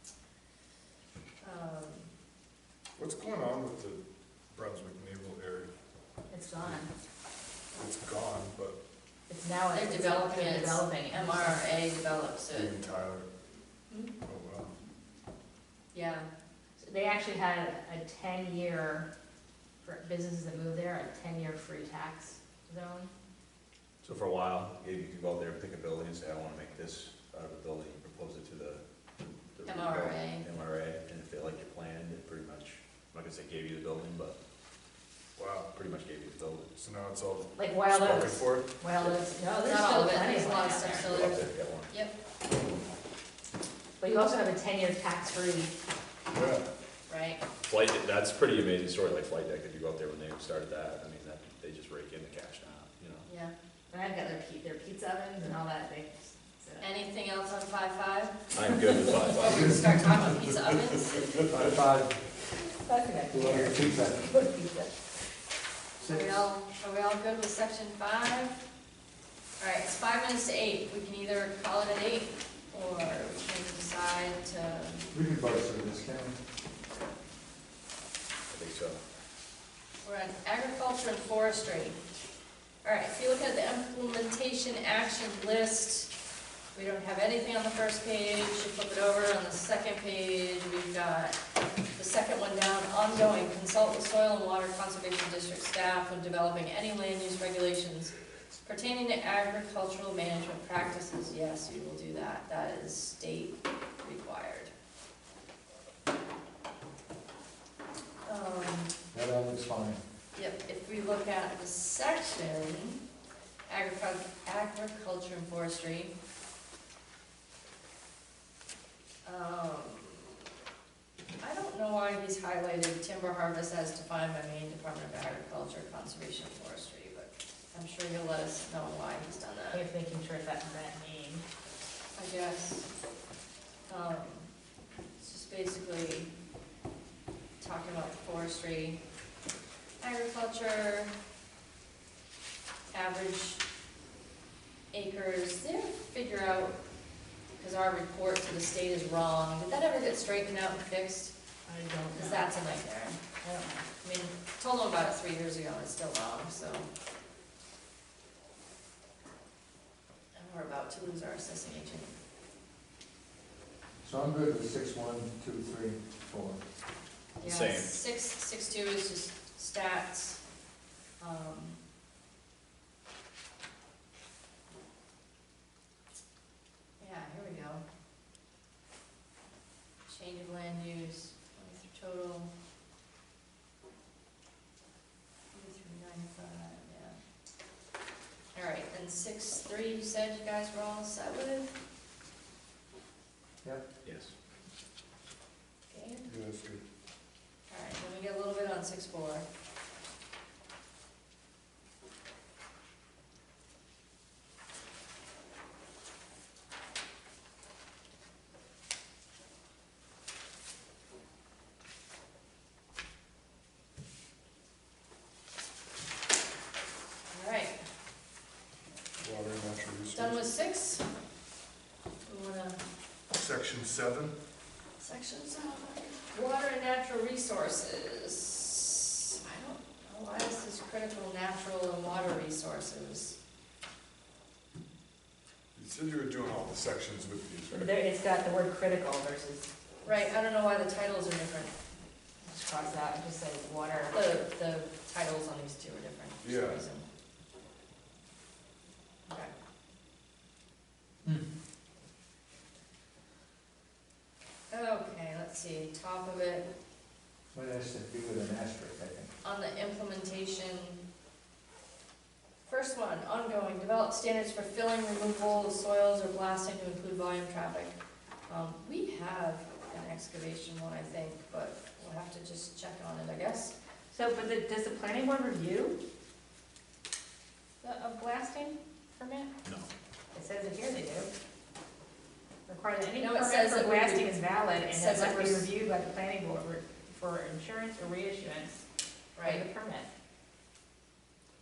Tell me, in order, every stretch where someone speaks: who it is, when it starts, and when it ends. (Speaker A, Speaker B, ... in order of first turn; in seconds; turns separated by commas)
Speaker A: 1.4-2.1, Speaker B: 3.0-5.7, Speaker C: 6.3-6.9, Speaker B: 7.7-8.8, Speaker C: 9.3-11.8, Speaker A: 9.7-12.7, Speaker B: 12.5-13.3, Speaker B: 14.2-14.7, Speaker A: 15.9-16.3, Speaker C: 16.8-19.1, Speaker C: 19.8-23.1, Speaker D: 24.0-28.8, Speaker D: 29.5-34.4, Speaker A: 29.6-30.5, Speaker B: 35.4-35.7, Speaker D: 35.7-36.7, Speaker B: 36.8-38.7, Speaker C: 37.6-41.1, Speaker A: 39.6-42.1, Speaker D: 41.0-41.9, Speaker C: 44.0-45.7, Speaker B: 46.3-46.7, Speaker A: 47.1-47.4, Speaker D: 47.7-53.2, Speaker A: 53.3-53.5, Speaker C: 53.9-56.9, Speaker A: 56.8-58.5, Speaker D: 58.5-59.8, Speaker A: 59.1-61.5, Speaker E: 59.5-59.9, Speaker E: 61.5-62.2, Speaker C: 62.6-65.1, Speaker E: 63.3-64.3, Speaker E: 66.0-66.5, Speaker A: 66.1-68.6, Speaker A: 69.6-75.1, Speaker E: 75.1-76.4, Speaker D: 78.5-79.0, Speaker A: 80.0-82.0, Speaker A: 82.8-86.1, Speaker A: 86.7-91.4, Speaker A: 92.0-104.7, Speaker A: 108.3-108.9, Speaker E: 109.1-110.0, Speaker A: 110.3-113.0, Speaker A: 113.7-116.2, Speaker A: 119.2-120.4, Speaker A: 121.4-129.8, Speaker C: 129.7-131.4, Speaker A: 132.2-132.9, Speaker A: 133.9-134.5, Speaker A: 135.2-136.3, Speaker A: 137.6-139.0, Speaker A: 140.0-141.1, Speaker A: 142.9-143.6, Speaker A: 144.9-146.8, Speaker A: 147.6-151.3, Speaker C: 151.7-152.5, Speaker A: 152.2-153.2, Speaker C: 153.4-153.9, Speaker A: 154.0-156.9, Speaker A: 160.3-162.1, Speaker E: 164.0-166.6, Speaker D: 167.4-168.0, Speaker A: 167.4-170.4, Speaker A: 171.2-171.8, Speaker A: 177.0-177.8, Speaker A: 180.1-182.5, Speaker A: 185.5-187.2, Speaker A: 188.5-191.8, Speaker D: 194.0-194.3, Speaker A: 195.9-196.3, Speaker B: 196.3-196.8, Speaker A: 197.7-199.5, Speaker A: 217.3-217.8, Speaker B: 219.2-220.4, Speaker A: 220.1-221.1, Speaker A: 222.2-222.8, Speaker B: 223.3-224.3, Speaker A: 225.0-233.4, Speaker B: 235.7-238.0, Speaker C: 237.7-239.7, Speaker A: 240.1-241.7, Speaker C: 242.4-244.1, Speaker A: 244.1-247.1, Speaker B: 246.4-246.8, Speaker A: 249.3-249.5, Speaker A: 254.7-256.7, Speaker E: 257.5-259.3, Speaker A: 259.4-261.0, Speaker A: 262.6-267.9, Speaker A: 268.5-273.8, Speaker C: 274.1-276.0, Speaker C: 277.8-279.5, Speaker C: 280.3-281.3, Speaker C: 282.7-288.9, Speaker A: 283.2-285.7, Speaker A: 289.4-289.6, Speaker C: 289.4-290.1